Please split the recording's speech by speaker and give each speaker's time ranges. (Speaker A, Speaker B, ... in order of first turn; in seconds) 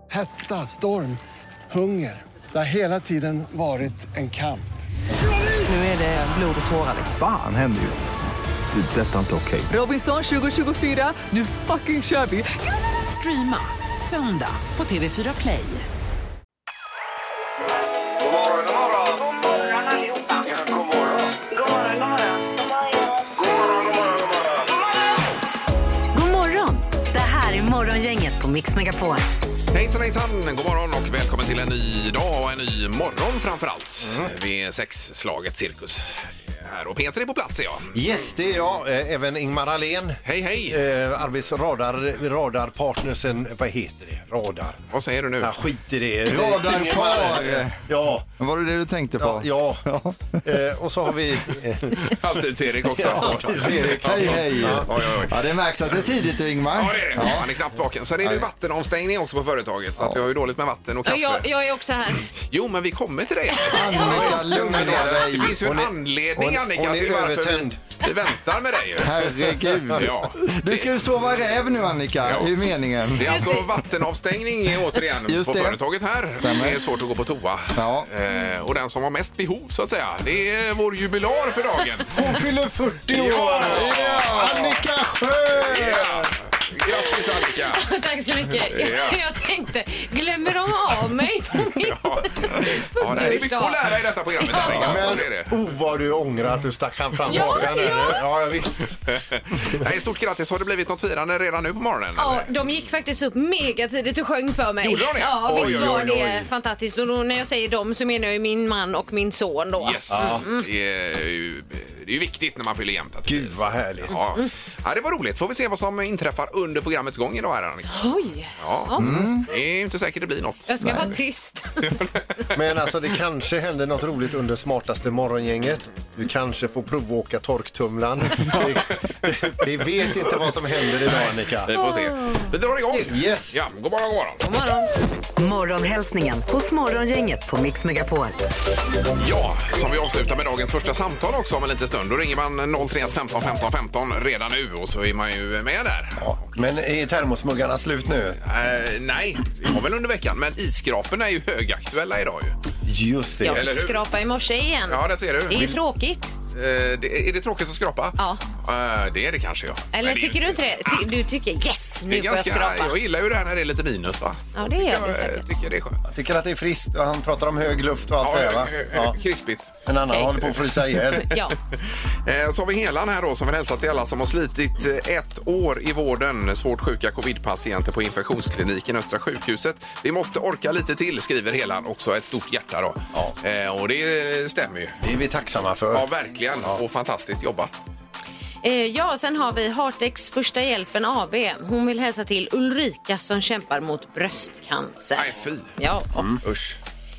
Speaker A: 0.1-1.2, 1.7-4.7
Speaker B: 7.1-8.1, 8.7-9.7
Speaker C: 9.7-15.9
Speaker D: 26.1-29.2, 135.4-138.4
Speaker E: 29.7-36.0, 36.6-37.9, 40.2-40.8, 44.9-45.5, 52.1-55.3, 56.7-61.5, 62.3-70.9, 72.2-72.5, 73.1-82.1, 83.1-84.3, 85.6-87.8, 88.6-89.2, 91.8-95.5, 99.1-102.5, 104.8-106.5, 109.8-120.7, 131.6-134.4, 139.2-146.4, 148.4-152.6, 153.5-154.0, 154.9-155.7, 156.5-161.1, 162.1-166.0, 168.2-169.7, 172.2-185.0, 185.9-187.8, 195.2-195.7, 196.4-196.8
Speaker F: 37.9-44.8, 45.4-48.2, 49.2-49.9, 50.4-52.3, 52.8-55.2, 64.1-67.8, 82.1-86.3, 94.5-99.0, 105.5-106.0, 110.1-110.4, 113.2-114.2, 122.5-131.7, 133.0-133.6, 146.2-148.4, 152.8-153.7, 166.1-169.2, 169.8-171.3, 185.0-186.1, 196.1-196.4
Speaker G: 46.3-47.8, 48.4-50.4, 54.0-57.5, 63.7-65.5, 69.0-73.5, 75.3-75.8, 76.4-76.8, 77.8-78.1, 83.6-84.8, 119.0-119.5, 120.8-121.1
Speaker H: 61.0-62.3, 63.6-64.3, 73.2-73.7, 86.9-93.8, 94.4-95.2, 97.3-98.2, 102.2-110.7, 114.1-114.5, 117.9-119.3, 120.7-121.9, 131.8-133.1, 134.4-134.9, 153.4-156.3, 159.9-162.9, 164.5-165.5, 171.2-171.5, 188.6-196.3